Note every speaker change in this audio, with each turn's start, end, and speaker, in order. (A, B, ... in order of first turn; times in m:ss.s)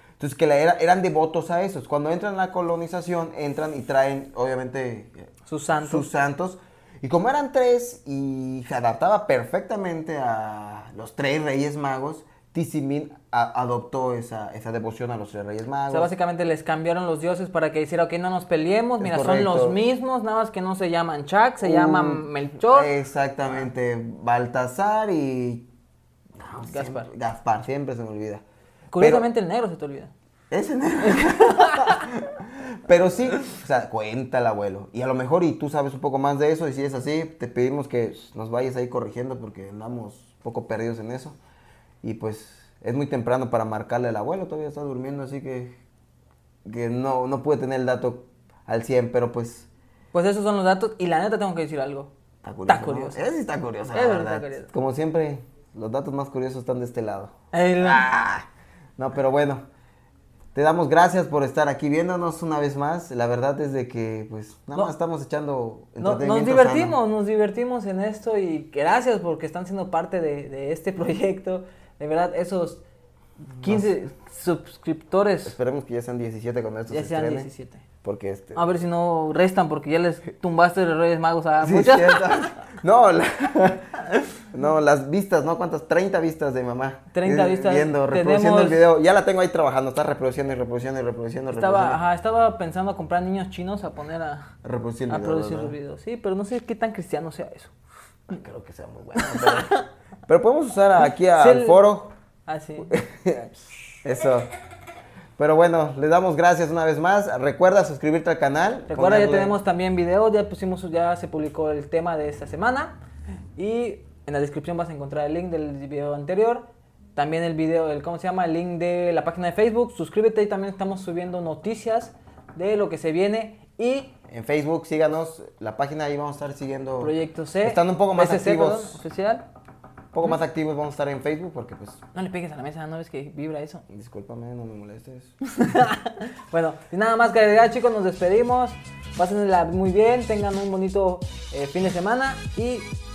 0:00.2-0:05.3 A
0:05.5-0:06.1 B
0:05.8-0:16.1 A
0:15.9-0:22.9 B
0:19.0-0:19.8 A
0:21.6-0:25.7 A
0:26.4-0:28.4 A
0:26.6-0:27.1 B
0:28.9-0:30.1 B
0:29.0-0:29.3 A
0:30.5-0:41.4 A
0:31.0-0:32.0 B
0:42.0-0:45.8 A
0:46.7-0:49.7 A
0:50.1-0:52.1 B
0:52.4-0:58.5 A
0:52.7-0:53.3 B
0:53.9-0:54.7 B
0:57.5-0:58.1 B
0:59.0-0:59.6 A
1:00.6-1:07.0 A
1:06.0-1:12.8 B
1:13.6-1:15.6 B
1:13.6-1:13.9 A
1:15.5-1:17.5 A
1:16.9-1:17.8 B
1:18.0-1:18.7 A
1:18.6-1:22.5 B
1:21.6-1:32.0 A
1:27.1-1:28.9 B
1:31.5-1:34.5 B
1:34.6-1:35.8 A
1:35.1-1:37.7 B
1:38.3-1:39.8 A
1:39.2-1:39.8 B
1:40.3-1:42.1 A
1:41.3-1:41.8 B
1:42.5-1:43.0 B
1:42.8-1:44.5 A
1:45.4-1:49.6 A
1:48.9-1:53.0 B
1:53.6-2:04.1 B
2:04.3-2:09.0 A
2:07.0-2:09.5 B
2:10.1-2:12.0 A
2:12.1-2:13.8 B
2:13.9-2:15.3 A
2:15.5-2:22.9 B